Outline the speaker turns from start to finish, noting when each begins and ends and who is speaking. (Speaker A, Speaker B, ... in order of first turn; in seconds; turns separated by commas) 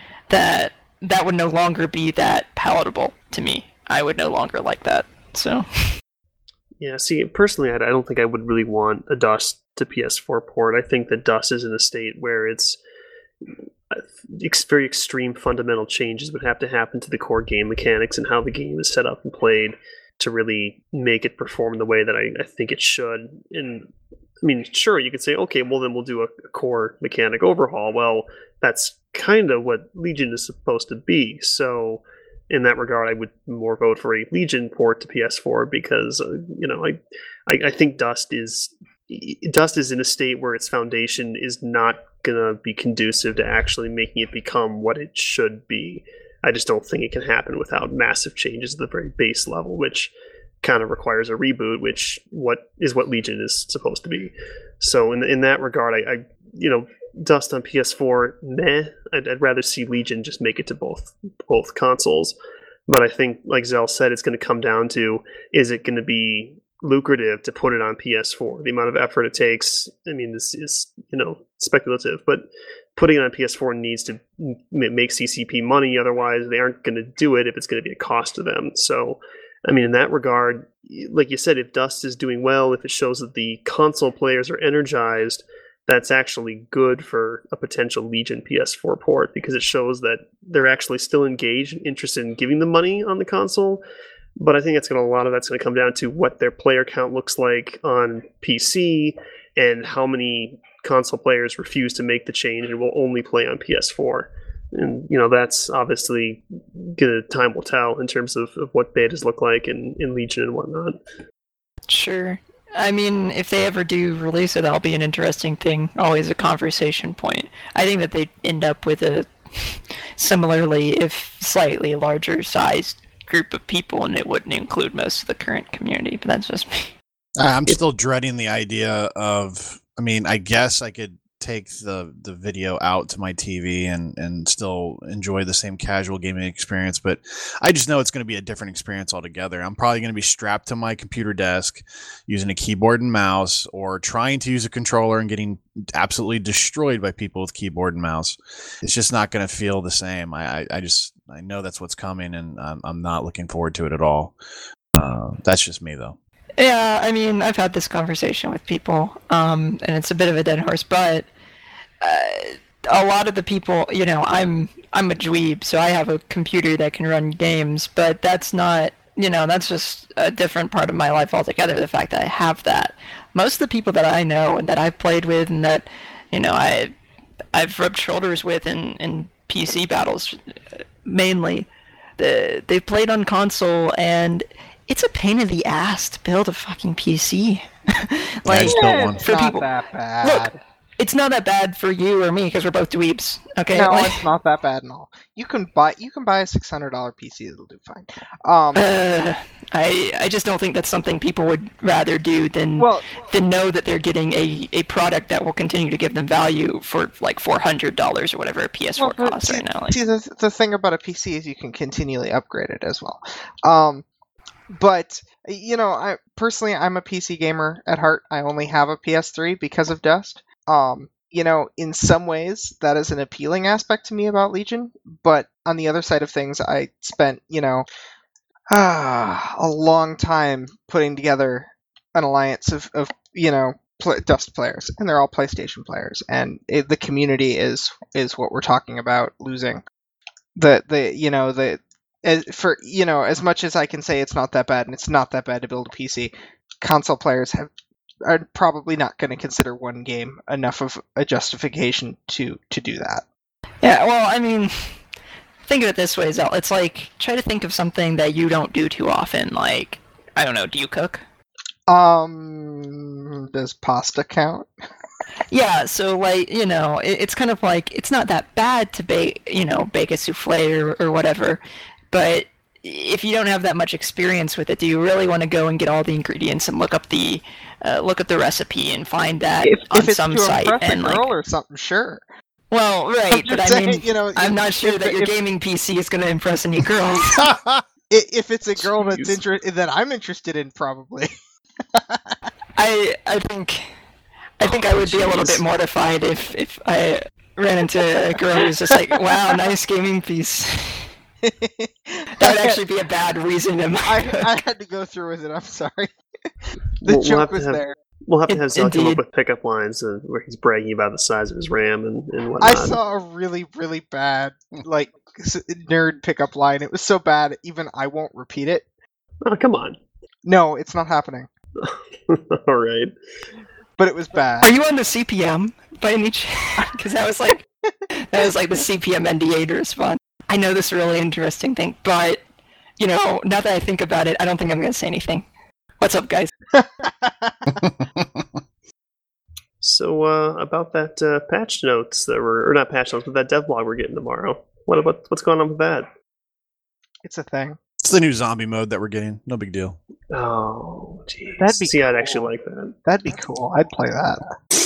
Speaker A: 0.3-5.9, Speaker B: 6.8-12.8, Speaker B: 13.9-23.9, Speaker B: 24.4-50.1, Speaker B: 50.6-62.4, Speaker B: 62.9-93.8, Speaker B: 94.4-111.0, Speaker A: 111.9-126.9, Speaker C: 127.4-154.3, Speaker C: 154.9-156.2, Speaker A: 156.6-161.3, Speaker A: 162.0-176.9, Speaker A: 177.5-189.7, Speaker C: 188.5-189.2, Speaker D: 188.7-190.6, Speaker A: 190.2-194.2, Speaker D: 193.7-198.8, Speaker A: 198.8-210.0, Speaker D: 202.8-203.1, Speaker D: 209.0-214.1, Speaker D: 214.7-227.9, Speaker D: 228.7-239.8, Speaker D: 240.6-247.7, Speaker D: 248.2-253.2, Speaker A: 253.8-255.0, Speaker A: 255.7-261.2, Speaker D: 261.9-264.7, Speaker A: 265.5-281.3, Speaker D: 279.6-282.2, Speaker A: 282.7-287.5, Speaker D: 283.3-285.3, Speaker C: 287.4-287.8, Speaker D: 288.1-291.3, Speaker B: 289.0-289.4, Speaker D: 291.8-292.5, Speaker A: 292.8-293.9, Speaker A: 294.6-301.1, Speaker D: 294.6-295.6, Speaker D: 298.6-299.2, Speaker D: 301.4-302.8, Speaker A: 302.4-304.5, Speaker D: 304.1-306.1, Speaker B: 307.0-313.0, Speaker D: 307.1-307.9, Speaker A: 308.5-309.2, Speaker D: 312.6-318.9, Speaker B: 319.4-320.0, Speaker D: 320.4-321.5, Speaker B: 321.8-323.1, Speaker D: 324.0-324.7, Speaker A: 324.6-327.6, Speaker A: 328.2-332.4, Speaker A: 333.0-335.5, Speaker A: 336.0-336.5, Speaker D: 336.7-337.8, Speaker C: 337.7-338.6, Speaker B: 339.8-346.1, Speaker D: 347.2-347.8, Speaker C: 348.0-350.0, Speaker B: 350.3-352.9, Speaker D: 351.6-352.5, Speaker D: 353.1-354.5